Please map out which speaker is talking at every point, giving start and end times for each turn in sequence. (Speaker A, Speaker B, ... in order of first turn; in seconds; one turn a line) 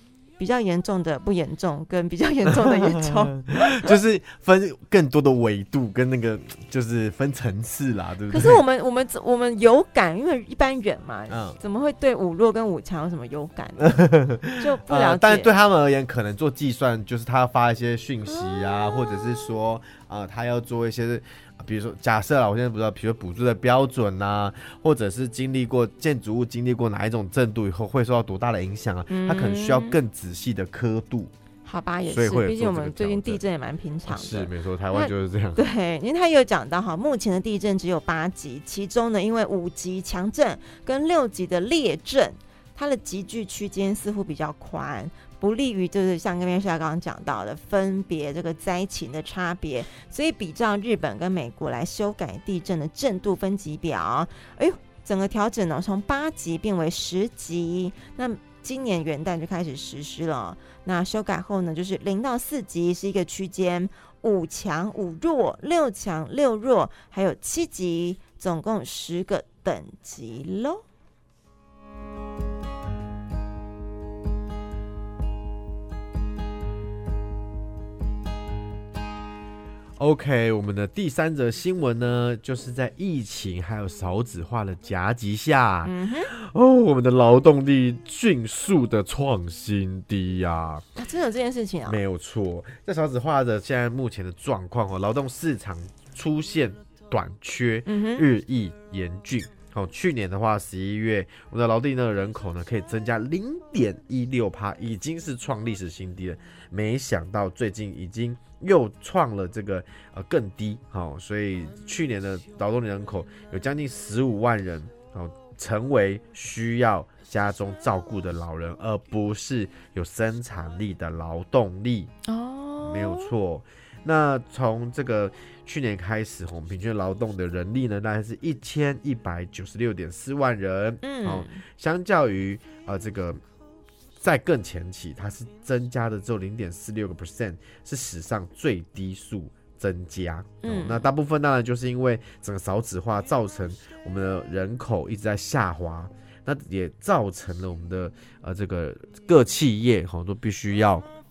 Speaker A: 0.4-3.9
Speaker B: 2.5-8.6
Speaker A: 8.3-13.9
Speaker B: 11.3-11.6
Speaker B: 13.8-31.3
Speaker A: 14.6-15.5
Speaker A: 18.3-19.5
Speaker A: 29.1-30.0
Speaker A: 31.6-70.8
Speaker B: 32.1-33.4
Speaker B: 34.1-35.6
Speaker B: 80.0-90.9
Speaker A: 85.8-86.3
Speaker A: 91.0-92.0
Speaker B: 91.8-122.1
Speaker A: 97.9-98.3
Speaker A: 122.3-123.3
Speaker B: 122.8-133.4
Speaker A: 131.0-131.6
Speaker B: 134.2-151.1
Speaker A: 140.6-141.1